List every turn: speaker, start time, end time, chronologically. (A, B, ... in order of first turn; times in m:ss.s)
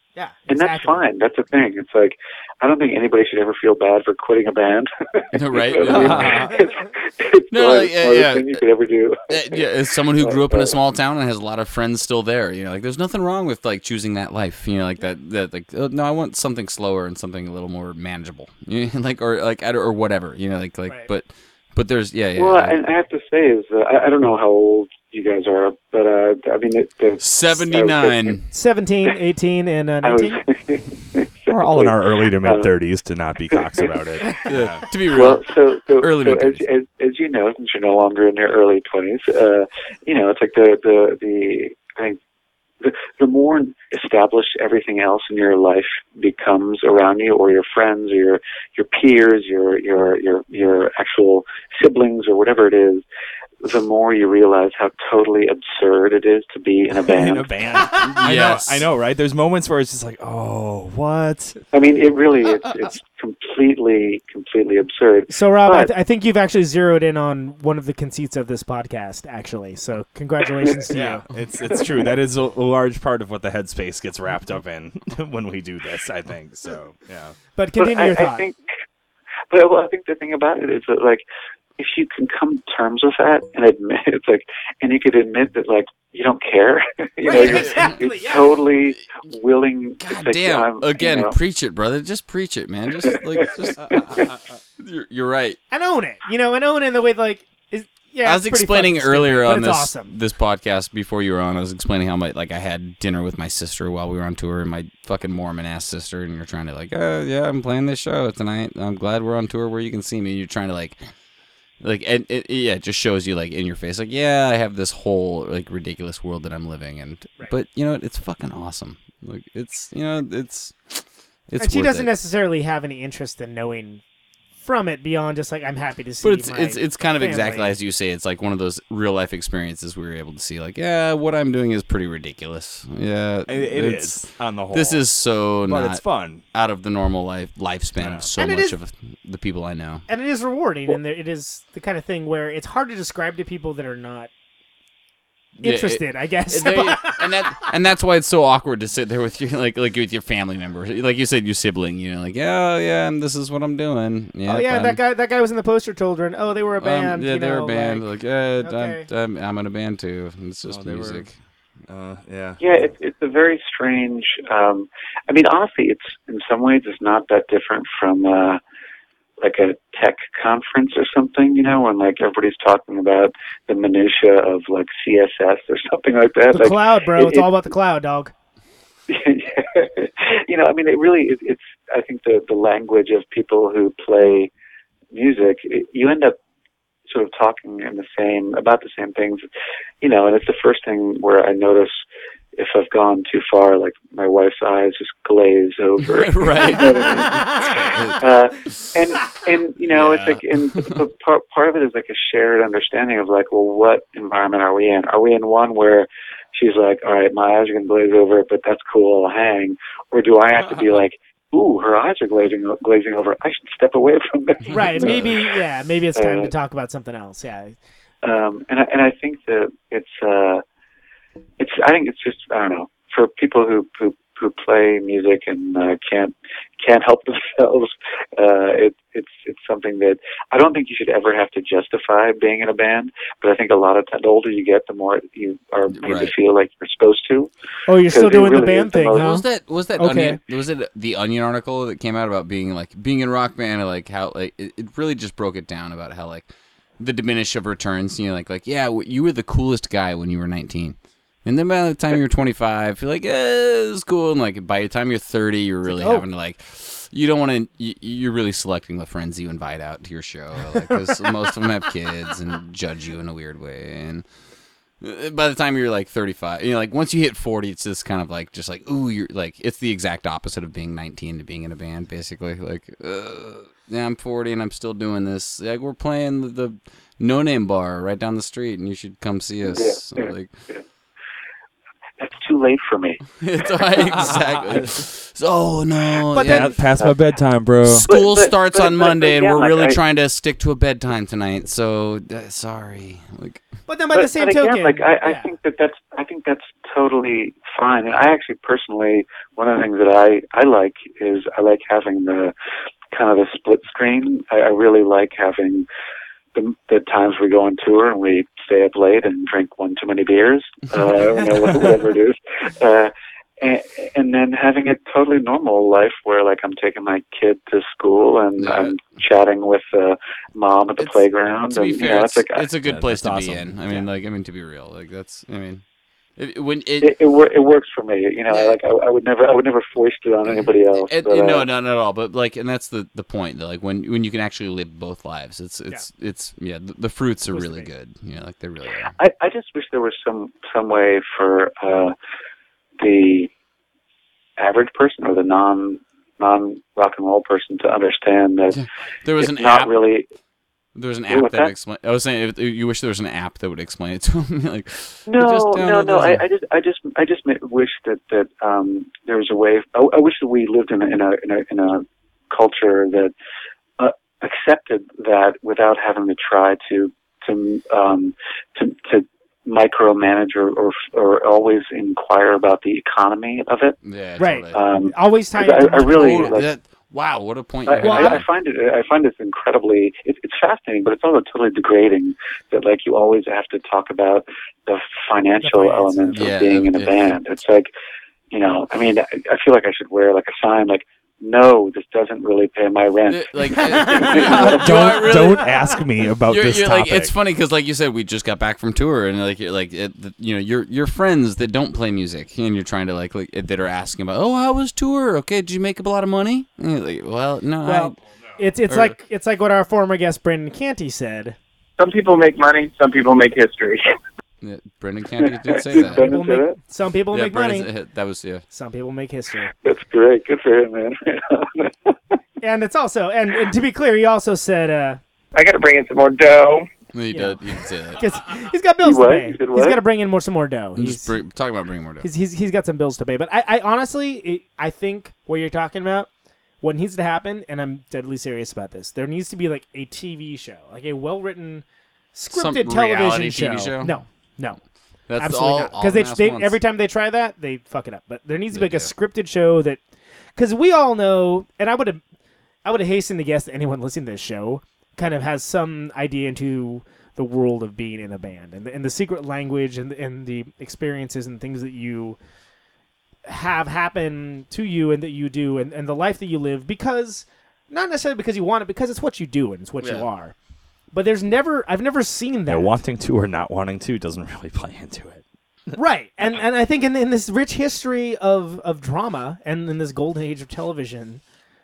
0:00.2-0:01.0 A
0:00.5-0:09.6 B
0:05.3-0:06.5 C
0:05.8-0:06.6 D
0:06.2-0:06.9 A
0:07.5-0:08.6 C
0:09.3-0:22.8 C
0:10.2-0:10.7 B
0:22.4-0:28.4 B
0:27.2-0:28.5 C
0:28.5-0:30.4 A
0:30.0-0:32.7 B
0:31.5-0:34.8 D
0:33.6-0:33.8 B
0:34.5-0:36.6 C
0:35.1-0:42.2 B
0:42.8-0:53.0 B
0:53.6-0:57.5 B
0:56.9-1:01.6 D
0:58.0-0:58.9 C
1:01.7-1:05.9 B
1:05.3-1:11.2 A
1:10.9-1:17.4 D
1:17.6-1:18.4 A
1:17.8-1:18.6 B
1:19.5-1:21.2 B
1:21.8-1:31.4 B
1:27.2-1:28.5 A
1:27.3-1:28.0 C
1:30.0-1:34.2 C
1:33.8-1:34.6 D
1:34.8-1:35.6 C
1:35.7-1:40.1 A
1:38.2-1:51.0 C
1:51.8-2:02.1 C
2:01.6-2:04.0 A
2:04.6-2:07.8 A
2:06.2-2:20.0 C
2:13.5-2:15.0 D
2:15.6-2:16.4 D
2:18.0-2:18.3 D
2:18.4-2:18.8 A
2:20.1-2:24.3 A
2:25.6-2:35.0 C
2:25.6-2:27.6 A
2:34.5-2:38.0 A
2:36.8-2:41.3 C
2:38.6-2:39.0 A
2:40.7-2:42.9 D
2:42.6-2:48.6 B
2:49.4-2:57.5 B
2:56.5-2:58.3 A
2:59.1-3:04.5 B
3:05.1-3:06.4 B
3:07.0-3:09.5 B
3:10.0-3:35.4 B
3:16.0-3:18.9 C
3:19.8-3:21.0 C
3:34.7-3:37.8 A
3:36.2-3:36.5 B
3:38.2-3:40.6 B
3:41.6-3:59.3 B
3:55.9-3:56.3 C
3:57.9-3:59.4 A
3:59.1-4:06.5 C
4:00.0-4:00.4 A
4:07.0-4:24.2 C
4:15.8-4:16.2 A
4:25.0-4:40.5 C
4:39.7-4:40.8 B
4:42.2-4:43.2 B
4:43.4-4:46.8 C
4:44.1-4:44.9 D
4:46.3-4:46.8 A
4:46.4-4:48.1 D
4:47.9-4:53.6 C
4:48.0-4:50.0 B
4:53.9-4:55.5 A
4:54.1-5:02.5 B
5:03.1-5:05.9 B
5:06.5-5:22.7 B
5:18.6-5:19.0 C
5:21.0-5:25.8 C
5:22.8-5:24.0 D
5:26.4-5:27.1 C
5:27.0-5:31.7 B
5:28.5-5:28.8 C
5:30.4-5:39.2 C
5:37.5-5:37.9 A
5:39.2-5:42.1 B
5:43.0-5:43.5 B
5:44.6-5:48.8 B
5:48.7-5:50.0 C
5:49.4-5:50.3 B
5:50.9-5:56.4 C
5:51.3-5:51.7 B
5:55.2-6:03.3 B
6:04.0-6:14.0 B
6:14.0-6:14.8 C
6:14.4-6:16.6 A
6:14.7-6:16.7 B
6:16.0-6:18.4 C
6:17.9-6:27.9 B
6:18.0-6:18.4 A
6:25.6-6:26.4 A
6:26.3-6:27.4 C
6:28.5-6:34.8 B
6:33.3-6:35.7 C
6:33.8-6:34.8 A
6:34.3-6:37.3 D
6:36.5-6:48.1 C
6:47.8-6:51.6 A
6:48.9-6:49.2 C
6:52.0-6:54.1 E
6:54.6-6:56.3 C
6:55.9-6:56.8 B
6:56.1-6:57.9 A
6:57.3-6:58.6 C
6:58.7-6:59.7 A
6:59.8-7:02.3 B
7:02.6-7:05.2 A
7:05.5-7:06.9 E
7:07.1-7:08.3 C
7:07.3-7:11.3 A
7:09.0-7:10.0 B
7:11.0-7:12.3 C
7:12.2-7:16.3 A
7:16.8-7:24.8 A
7:22.5-7:24.2 C
7:25.3-7:26.8 C
7:25.4-7:30.0 A
7:28.7-7:29.1 C
7:30.6-7:32.2 A
7:32.8-7:42.4 A
7:43.4-7:50.5 A
7:50.0-7:50.3 C
7:51.1-7:53.0 A
7:52.7-7:55.4 D
7:56.0-8:01.4 A